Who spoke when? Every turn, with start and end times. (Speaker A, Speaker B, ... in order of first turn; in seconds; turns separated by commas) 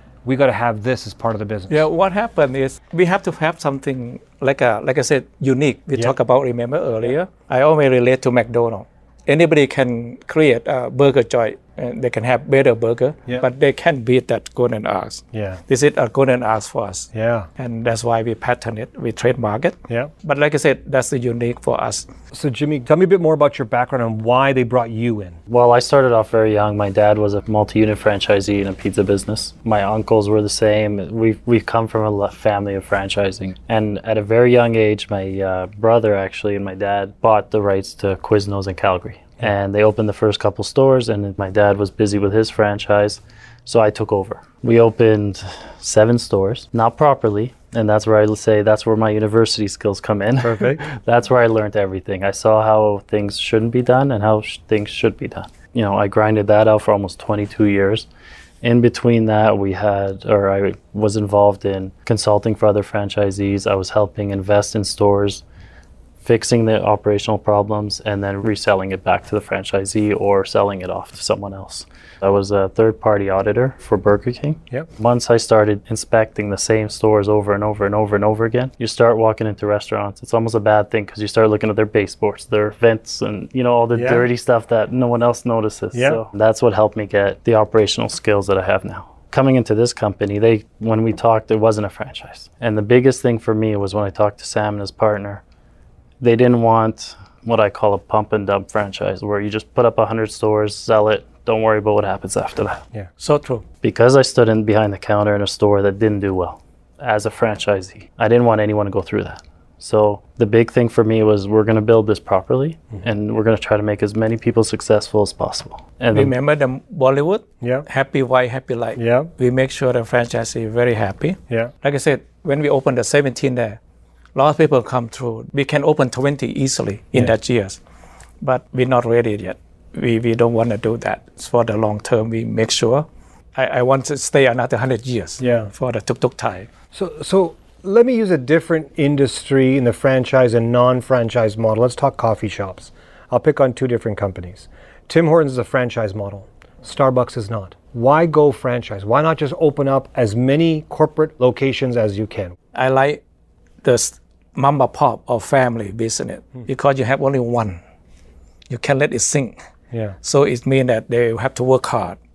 Speaker A: 0.2-1.8, Speaker B: 1.7-22.1, Speaker A: 15.3-15.6, Speaker A: 17.1-17.5, Speaker A: 22.3-25.4, Speaker C: 25.5-58.1, Speaker A: 50.4-50.8, Speaker C: 58.6-65.4, Speaker C: 66.2-95.4, Speaker A: 83.9-84.2, Speaker A: 85.9-86.2, Speaker C: 96.2-102.8, Speaker B: 103.2-103.6, Speaker C: 103.8-116.3, Speaker B: 116.1-123.8, Speaker A: 117.6-117.8, Speaker A: 119.0-119.3, Speaker B: 124.3-127.8, Speaker B: 128.4-136.7, Speaker A: 135.4-135.7, Speaker A: 136.9-152.6, Speaker B: 152.7-153.2, Speaker B: 153.8-157.8, Speaker B: 158.7-159.6, Speaker B: 160.2-162.2